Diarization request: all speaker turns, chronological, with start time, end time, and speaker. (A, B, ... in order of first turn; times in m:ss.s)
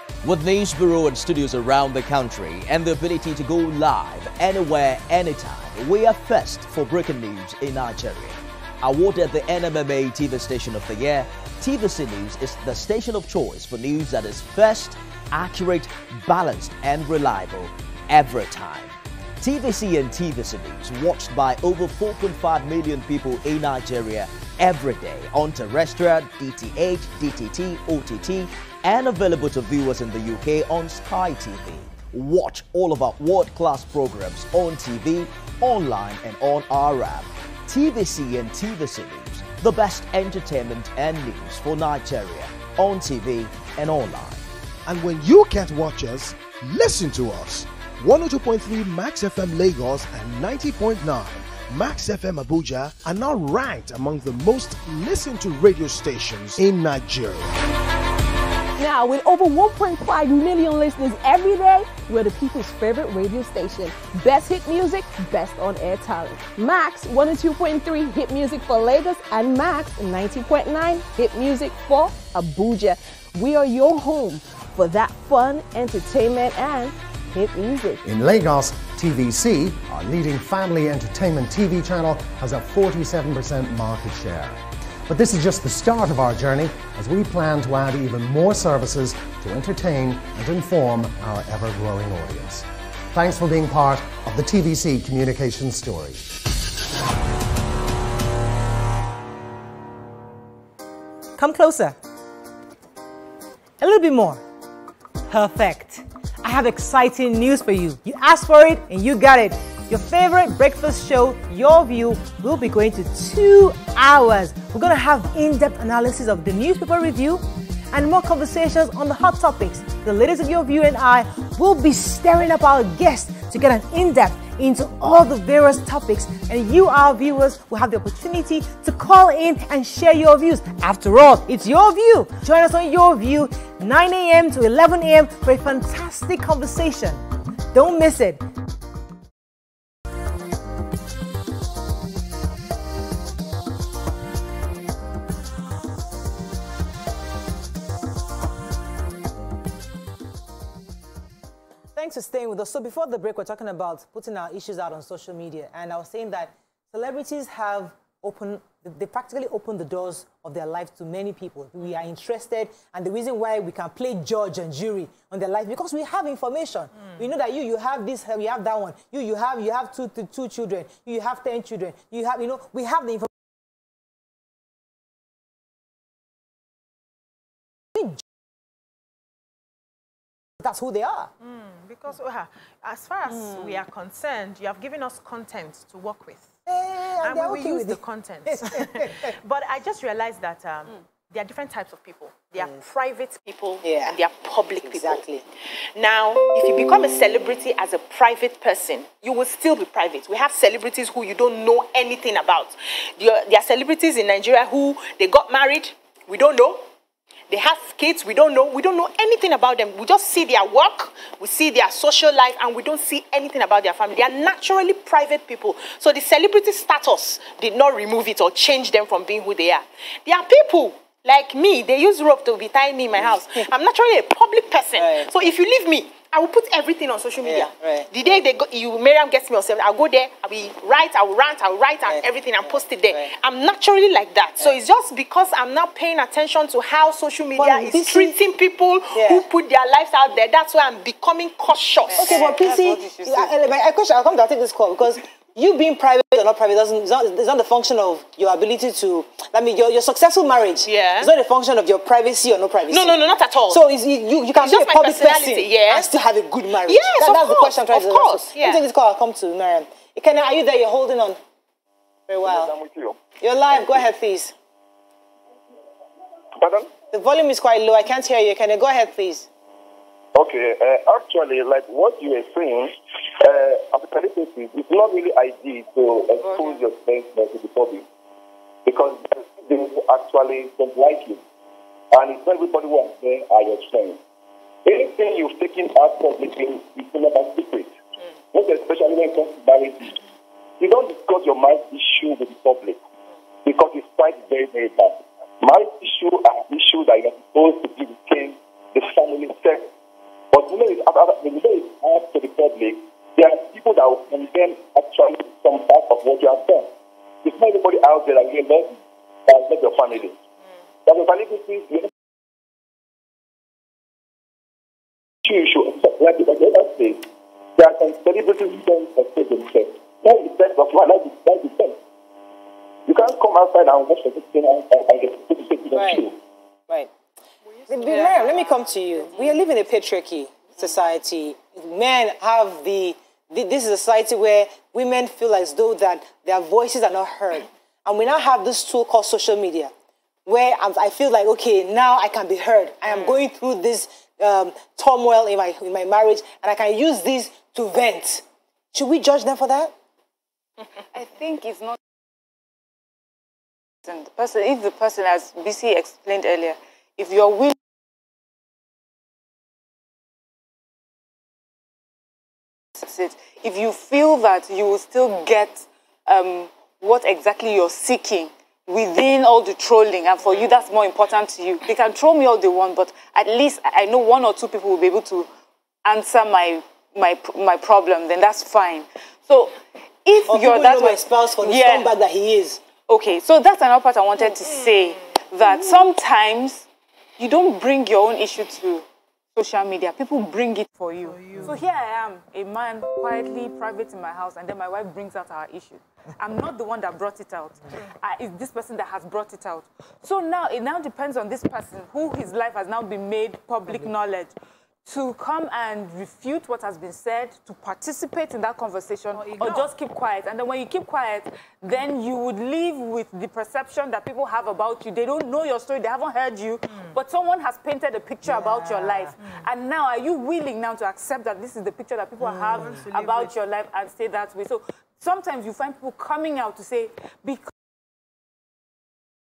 0:00.2-0:44.4 A
0:44.9-0:57.6 B
0:58.8-1:18.0 C
1:18.0-1:36.2 D
1:41.4-1:42.0 E
1:43.8-1:44.4 E
1:45.3-2:18.4 E
2:32.0-2:53.3 E
3:00.6-3:01.3 E
3:01.4-3:06.5 F
3:06.7-3:09.3 E
3:07.2-3:26.8 F
3:13.8-3:14.2 E
3:14.8-3:15.4 E
3:27.5-4:02.4 F
3:43.2-3:43.6 E
3:45.0-3:45.3 E
3:47.4-3:48.1 E
3:57.6-3:58.3 E
3:59.1-3:59.5 E
4:02.1-4:03.6 G
4:02.2-4:21.4 E
4:10.8-4:11.3 F
4:12.9-4:13.8 F
4:14.6-4:16.1 F
4:16.9-4:18.8 F
4:22.3-4:22.7 E
4:22.4-4:23.2 H
4:23.4-4:24.5 E
4:26.6-4:26.9 H
4:27.1-4:29.5 E
4:30.4-4:38.1 H
4:36.4-4:36.9 G
4:38.9-4:41.4 H
4:42.1-4:44.2 H
4:44.8-4:48.0 H
4:48.5-4:50.2 H
4:50.8-4:53.0 H
4:53.6-4:59.9 H
5:00.5-5:06.9 H
5:07.4-5:10.4 H
5:11.1-5:12.1 H
5:15.4-5:22.0 H
5:23.1-5:26.4 H
5:25.9-5:26.2 E
5:27.9-5:39.9 E
5:40.5-5:49.9 E
5:51.1-5:52.0 G
5:54.0-5:57.8 G
6:03.0-6:15.5 G
6:16.0-6:22.1 G
6:20.4-6:22.8 E
6:23.1-6:26.9 G
6:27.4-6:29.0 G
6:29.6-6:44.6 G
6:31.2-6:31.7 F
6:45.1-7:07.7 G
6:49.3-6:49.9 F
6:58.4-6:59.3 E
7:02.4-7:03.0 E
7:02.7-7:03.5 F